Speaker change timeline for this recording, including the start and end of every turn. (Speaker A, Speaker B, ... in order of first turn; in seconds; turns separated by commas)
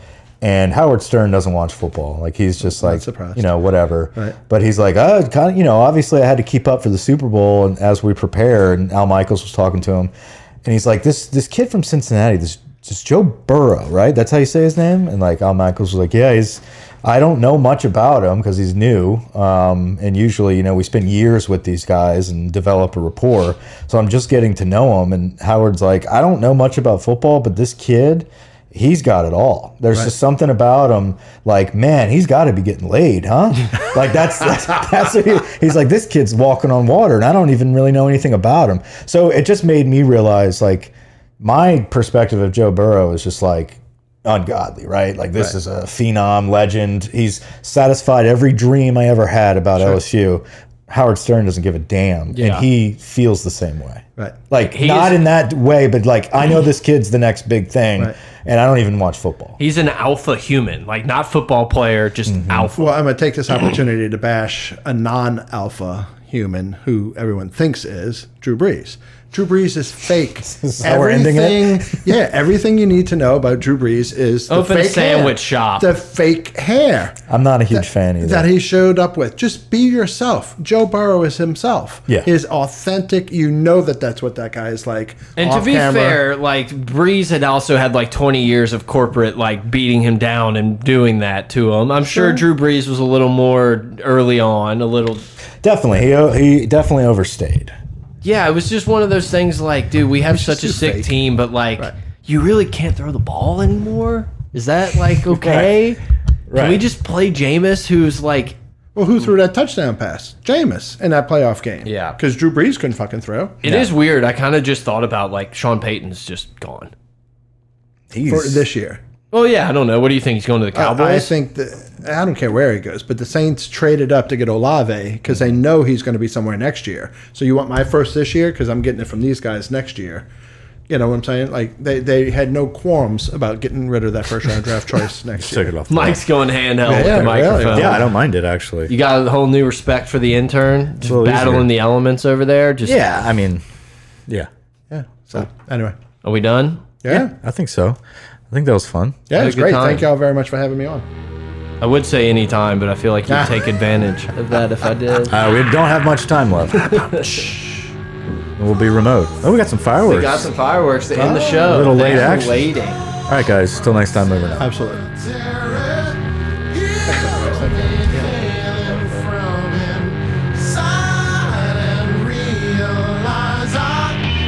Speaker A: 0.4-10.1, Speaker B: 2.6-3.5, Speaker A: 10.6-59.6, Speaker C: 52.3-52.6, Speaker C: 54.6-55.2, Speaker C: 59.6-62.9, Speaker A: 62.3-62.7, Speaker B: 62.8-86.2, Speaker A: 70.4-72.0, Speaker C: 74.5-75.9, Speaker A: 77.3-78.5, Speaker C: 85.4-95.2, Speaker B: 92.0-92.4, Speaker A: 95.6-97.7, Speaker C: 98.2-106.0, Speaker B: 100.3-101.1, Speaker A: 105.3-105.7, Speaker A: 106.5-106.8, Speaker C: 106.5-108.5, Speaker B: 109.0-113.6, Speaker C: 111.8-112.2, Speaker A: 113.6-113.9, Speaker C: 113.6-116.9, Speaker A: 118.1-118.6, Speaker B: 118.2-119.0, Speaker C: 119.3-121.3, Speaker B: 120.7-130.2, Speaker B: 130.9-135.7, Speaker A: 135.4-136.2, Speaker C: 135.9-138.0, Speaker B: 136.8-138.1, Speaker A: 137.7-138.9, Speaker C: 138.9-143.0, Speaker A: 141.0-141.7, Speaker A: 142.8-143.6, Speaker B: 144.9-146.0, Speaker C: 146.2-146.9, Speaker B: 147.0-147.3, Speaker A: 147.1-148.0, Speaker A: 148.5-149.2, Speaker B: 149.3-151.0, Speaker C: 149.3-150.0, Speaker C: 151.8-155.3, Speaker B: 153.3-153.6, Speaker A: 155.3-157.1, Speaker C: 156.8-157.6, Speaker B: 157.4-157.7, Speaker A: 158.6-160.5, Speaker C: 160.0-163.0, Speaker B: 161.2-162.0, Speaker A: 161.6-162.6, Speaker A: 163.3-164.7, Speaker B: 164.6-166.1, Speaker C: 166.7-174.1, Speaker B: 167.0-169.2